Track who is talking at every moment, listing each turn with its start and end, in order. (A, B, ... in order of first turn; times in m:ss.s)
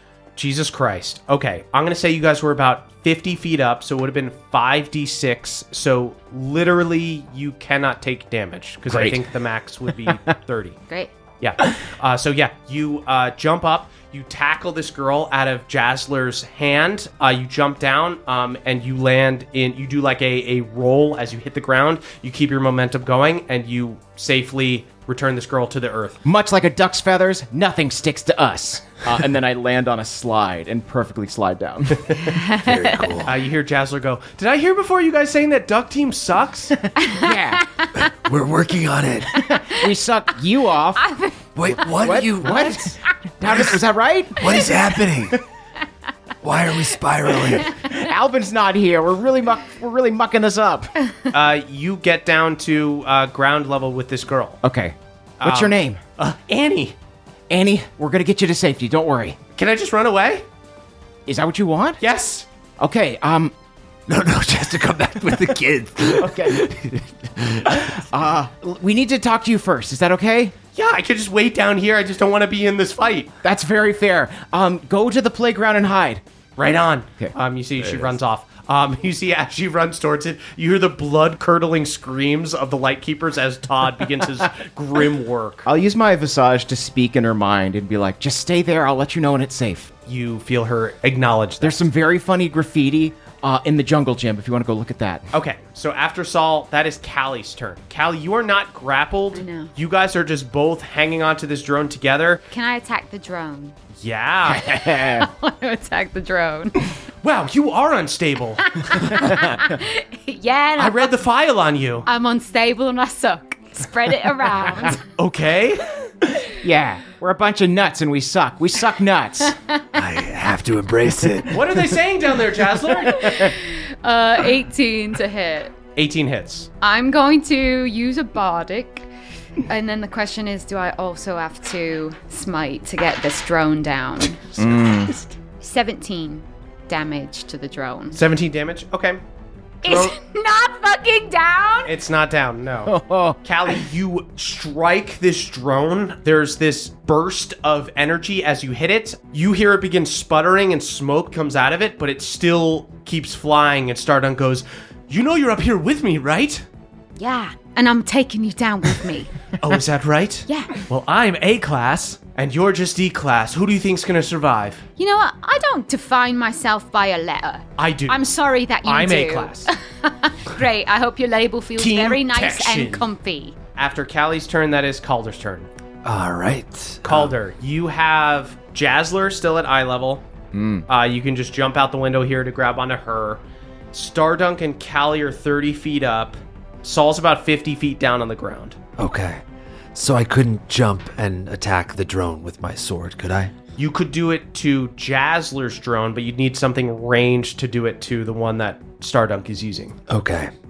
0:00.4-0:10.8 A
0:08.9-0:09.2 B
0:11.4-0:26.2 A
0:26.2-0:32.3 B
0:32.3-0:33.2 C
0:32.5-0:33.3 D
0:33.2-0:36.7 A
0:37.0-0:37.6 B
0:37.0-0:37.9 C
0:38.1-0:39.3 D
0:39.4-0:41.1 B
0:39.5-0:39.8 C
0:41.0-0:41.4 C
0:41.6-0:42.8 D
0:42.0-0:45.4 B
0:44.4-0:45.4 D
0:46.4-0:47.7 D
0:47.4-0:50.9 B
0:51.3-0:54.6 A
0:54.6-0:56.0 B
0:55.4-0:57.0 A
0:57.5-0:59.4 B
0:59.6-1:00.4 A
1:01.2-1:02.0 B
1:02.0-1:02.5 A
1:02.8-1:03.5 B
1:04.1-1:07.8 D
1:06.2-1:06.6 B
1:07.7-1:10.5 B
1:10.7-1:13.3 A
1:13.4-1:16.2 B
1:16.6-1:25.7 A
1:25.6-1:29.9 B
1:30.1-1:31.8 A
1:31.6-1:35.3 B
1:35.3-1:42.4 A
1:39.3-1:39.7 C
1:42.5-1:43.8 C
1:44.0-1:44.7 A
1:44.5-1:45.3 B
1:45.0-1:46.9 C
1:47.2-1:49.3 A
1:48.7-1:51.1 C
1:50.8-1:52.1 A
1:52.0-1:55.0 C
1:55.2-1:56.0 A
1:56.6-1:59.5 B
1:59.9-2:01.8 D
2:01.5-2:03.4 A
2:03.0-2:05.7 C
2:06.0-2:06.7 A
2:06.8-2:09.1 C
2:09.7-2:14.5 C
2:14.6-2:15.1 B
2:15.6-2:18.2 C
2:18.1-2:19.2 A
2:19.8-2:20.1 A
2:19.8-2:21.9 C
2:21.8-2:36.6 A
2:22.9-2:23.4 B
2:37.2-2:39.3 C
2:39.6-2:44.8 A
2:40.5-2:40.7 C
2:45.0-2:53.5 C
2:47.8-2:48.2 A
2:48.8-2:49.7 A
2:51.8-2:53.0 A
2:53.8-2:55.7 A
2:56.0-2:57.3 D
2:57.0-3:00.2 A
3:00.5-3:00.8 B
3:00.9-3:03.4 A
3:03.9-3:08.8 A
3:09.0-3:09.4 D
3:09.9-3:13.5 D
3:13.8-3:20.0 A
3:20.1-3:20.5 D